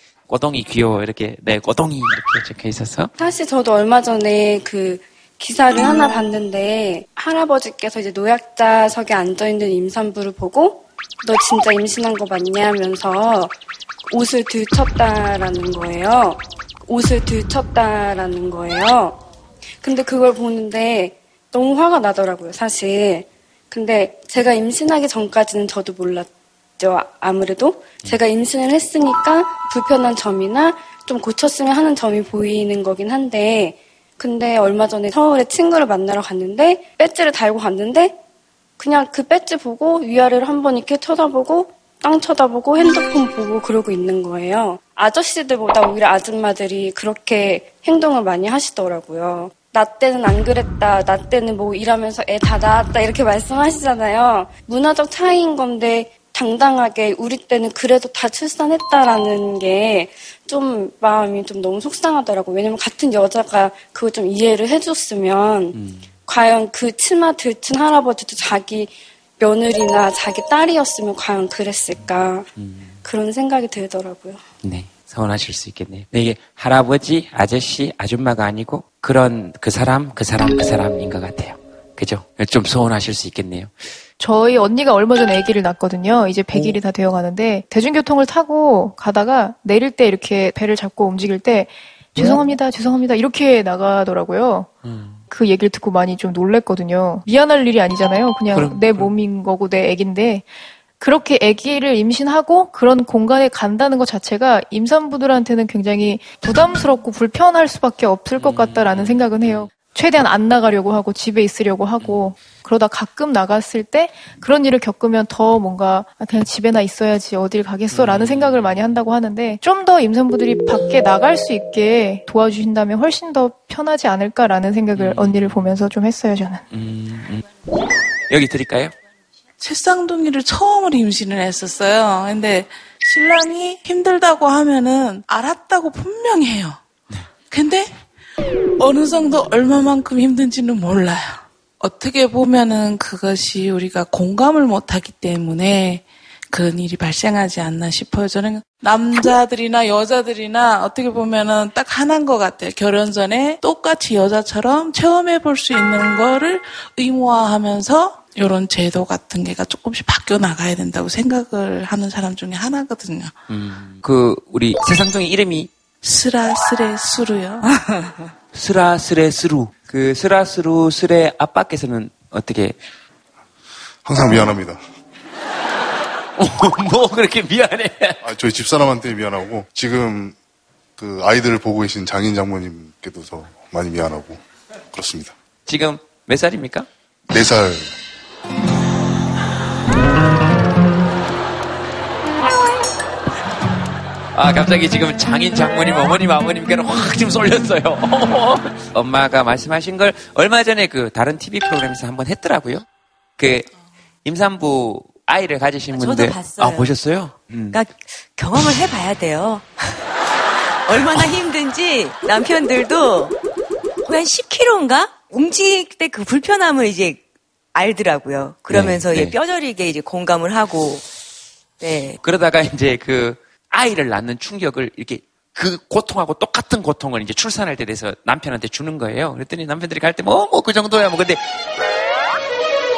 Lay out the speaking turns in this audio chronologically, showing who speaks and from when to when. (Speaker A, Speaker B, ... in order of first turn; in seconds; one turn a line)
Speaker A: 0.3-3.1
Speaker B: 3.1-13.5
Speaker B: 14.1-19.2
Speaker B: 19.8-38.2
Speaker B: 38.8-65.7
Speaker A: 65.7-66.0
Speaker B: 66.3-72.5
Speaker A: 72.6-72.9
Speaker B: 73.0-74.4
Speaker A: 74.6-83.8
Speaker C: 84.2-94.7
Speaker A: 94.8-95.2
Speaker C: 95.3-100.5
Speaker A: 98.5-99.1
Speaker C: 101.0-126.6
Speaker A: 108.3-109.7
Speaker A: 117.9-118.8
Speaker A: 124.9-125.7
Speaker A: 126.7-127.4
Speaker A: 128.3-128.9
Speaker D: 129.6-136.8
Speaker D: 137.4-138.0
Speaker D: 138.8-163.3
Speaker A: 163.5-165.7
Speaker D: 166.0-167.7
Speaker A: 168.5-172.8
Speaker E: 174.0-174.8
Speaker A: 176.4-178.2
Speaker E: 178.2-180.3
Speaker E: 181.0-184.4
Speaker E: 184.9-185.3
Speaker A: 185.7-186.9
Speaker E: 187.3-187.9
Speaker A: 194.3-202.8
Speaker A: 203.4-203.7
Speaker A: 204.2-207.8
Speaker F: 205.9-206.9
Speaker F: 207.7-209.7
Speaker F: 210.8-213.3
Speaker F: 214.0-217.2
Speaker F: 217.7-221.0
Speaker A: 218.7-219.3
Speaker F: 221.8-222.2
Speaker A: 222.2-231.4